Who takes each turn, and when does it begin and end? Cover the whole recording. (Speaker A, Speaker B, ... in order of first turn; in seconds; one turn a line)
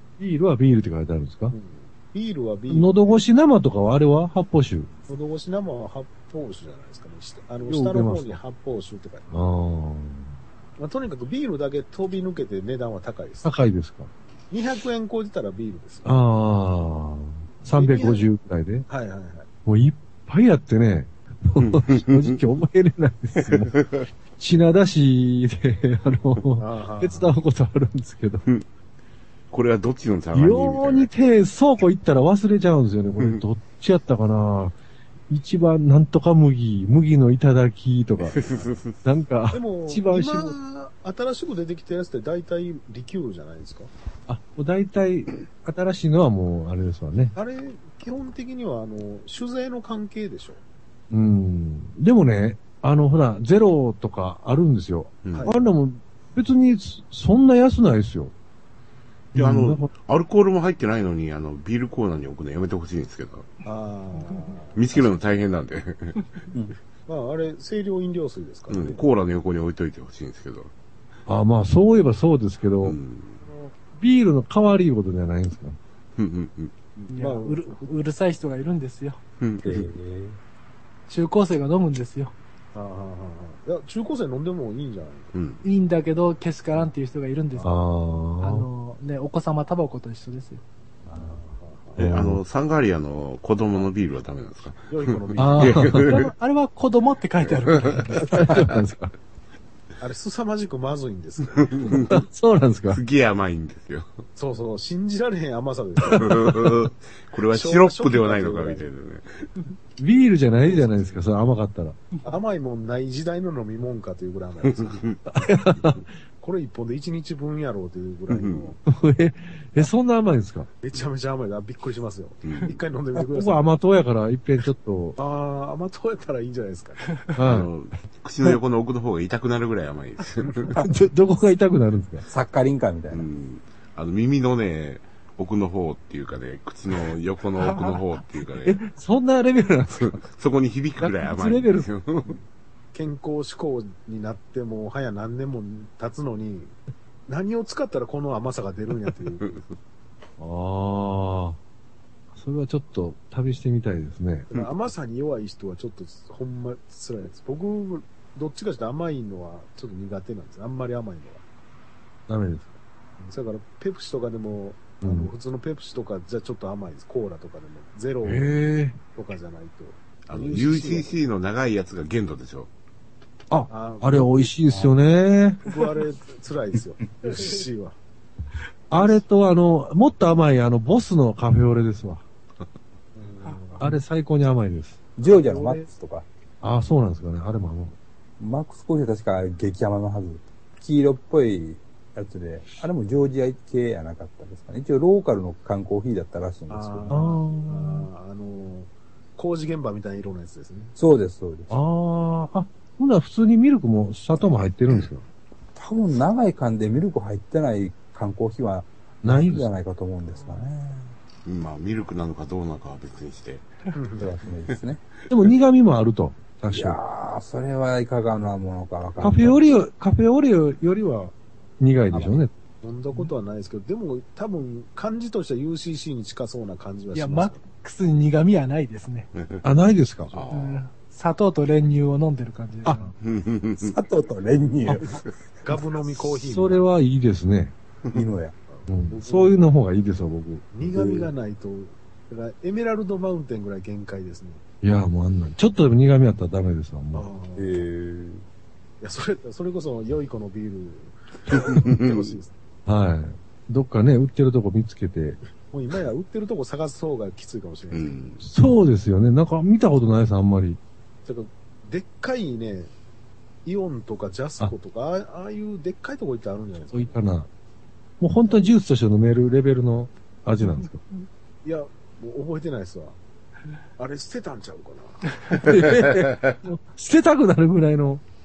Speaker A: 0.2-1.6
Speaker B: 1.5-3.2
Speaker A: 2.7-4.9
Speaker B: 5.1-9.3
Speaker A: 7.7-8.4
Speaker A: 9.3-10.4
Speaker B: 10.8-13.5
Speaker A: 13.4-14.1
Speaker B: 14.5-16.1
Speaker A: 16.0-18.9
Speaker B: 17.7-18.3
Speaker B: 18.9-19.5
Speaker A: 19.6-23.8
Speaker C: 21.6-22.4
Speaker C: 23.4-24.1
Speaker A: 24.4-28.4
Speaker B: 26.6-27.3
Speaker C: 29.5-31.1
Speaker A: 30.3-34.7
Speaker A: 35.3-38.4
Speaker C: 38.2-39.0
Speaker A: 39.0-40.5
Speaker B: 39.5-43.9
Speaker A: 44.3-47.4
Speaker B: 47.4-50.6
Speaker A: 51.1-58.3
Speaker B: 55.3-55.7
Speaker A: 59.3-59.9
Speaker C: 59.3-63.5
Speaker B: 63.6-65.2
Speaker C: 64.7-66.3
Speaker B: 67.0-69.0
Speaker C: 68.7-70.7
Speaker A: 71.3-73.0
Speaker C: 72.8-73.4
Speaker A: 73.9-75.8
Speaker C: 76.2-76.7
Speaker B: 77.0-77.8
Speaker D: 77.1-79.2
Speaker C: 79.4-79.9
Speaker E: 79.6-80.4
Speaker D: 81.1-82.3
Speaker B: 82.7-85.3
Speaker C: 85.3-85.6
Speaker D: 85.6-87.8
Speaker A: 87.6-88.7
Speaker D: 88.4-90.6
Speaker E: 91.0-91.4
Speaker B: 91.2-92.1
Speaker A: 92.0-92.4
Speaker C: 92.0-96.3
Speaker B: 94.9-96.0
Speaker A: 95.4-96.2
Speaker D: 96.1-98.5
Speaker C: 97.5-98.7
Speaker A: 98.3-99.1
Speaker B: 100.0-102.0
Speaker C: 101.6-102.2
Speaker A: 102.1-103.0
Speaker C: 102.9-104.2
Speaker B: 104.3-106.7
Speaker C: 106.1-109.5
Speaker B: 107.5-108.9
Speaker A: 110.0-112.0
Speaker B: 110.6-111.2
Speaker B: 112.2-115.2
Speaker C: 114.6-115.2
Speaker A: 115.3-116.1
Speaker B: 116.4-118.8
Speaker C: 118.3-118.7
Speaker A: 118.8-120.7
Speaker B: 120.8-123.7
Speaker C: 122.4-122.8
Speaker A: 123.3-125.2
Speaker B: 125.2-127.1
Speaker A: 127.3-127.7
Speaker C: 127.4-130.7
Speaker A: 130.8-132.2
Speaker E: 132.2-133.3
Speaker C: 133.1-138.8
Speaker D: 137.7-138.0
Speaker A: 138.6-140.2
Speaker C: 140.2-142.4
Speaker A: 141.0-141.9
Speaker B: 142.9-146.8
Speaker B: 147.3-149.6
Speaker C: 149.4-149.7
Speaker A: 150.4-151.6
Speaker A: 152.3-154.5
Speaker B: 154.5-161.4
Speaker A: 162.3-162.7
Speaker B: 163.2-168.6
Speaker A: 165.0-165.3
Speaker A: 168.2-169.0
Speaker B: 169.1-171.2
Speaker C: 170.3-172.7
Speaker A: 173.5-175.6
Speaker B: 173.7-175.0
Speaker B: 175.6-178.0
Speaker A: 178.9-182.2
Speaker B: 183.1-183.9
Speaker A: 183.8-185.0
Speaker E: 185.2-186.3
Speaker B: 185.2-185.8
Speaker A: 186.6-187.9
Speaker E: 188.4-197.2
Speaker B: 196.7-200.9
Speaker A: 197.1-198.1
Speaker E: 201.0-201.8
Speaker A: 201.7-205.2
Speaker E: 205.8-211.1
Speaker A: 209.2-209.7
Speaker C: 211.4-213.7
Speaker B: 213.9-214.3
Speaker E: 214.2-215.0
Speaker A: 215.3-217.0
Speaker E: 216.7-219.7
Speaker A: 219.2-222.5
Speaker E: 222.1-222.4
Speaker B: 222.8-227.6
Speaker D: 227.1-229.3
Speaker C: 229.3-229.6
Speaker A: 229.6-230.3
Speaker C: 230.3-230.9
Speaker D: 230.5-233.1
Speaker C: 233.2-234.0
Speaker E: 233.8-235.1
Speaker B: 235.6-236.8
Speaker A: 236.2-237.7
Speaker E: 238.1-238.5
Speaker B: 238.7-239.6
Speaker A: 238.9-240.7
Speaker B: 240.7-244.6
Speaker E: 240.9-241.3
Speaker A: 244.8-247.3
Speaker B: 247.1-247.8
Speaker E: 247.6-248.4
Speaker B: 249.0-252.5
Speaker C: 251.5-252.4
Speaker A: 252.9-255.4
Speaker B: 255.7-258.4
Speaker C: 257.9-258.4
Speaker A: 258.4-260.8
Speaker B: 261.2-262.9
Speaker B: 263.6-267.1
Speaker A: 266.9-267.5
Speaker A: 268.2-271.0
Speaker B: 271.6-273.2
Speaker B: 274.0-275.5
Speaker A: 275.4-278.2
Speaker C: 275.9-276.5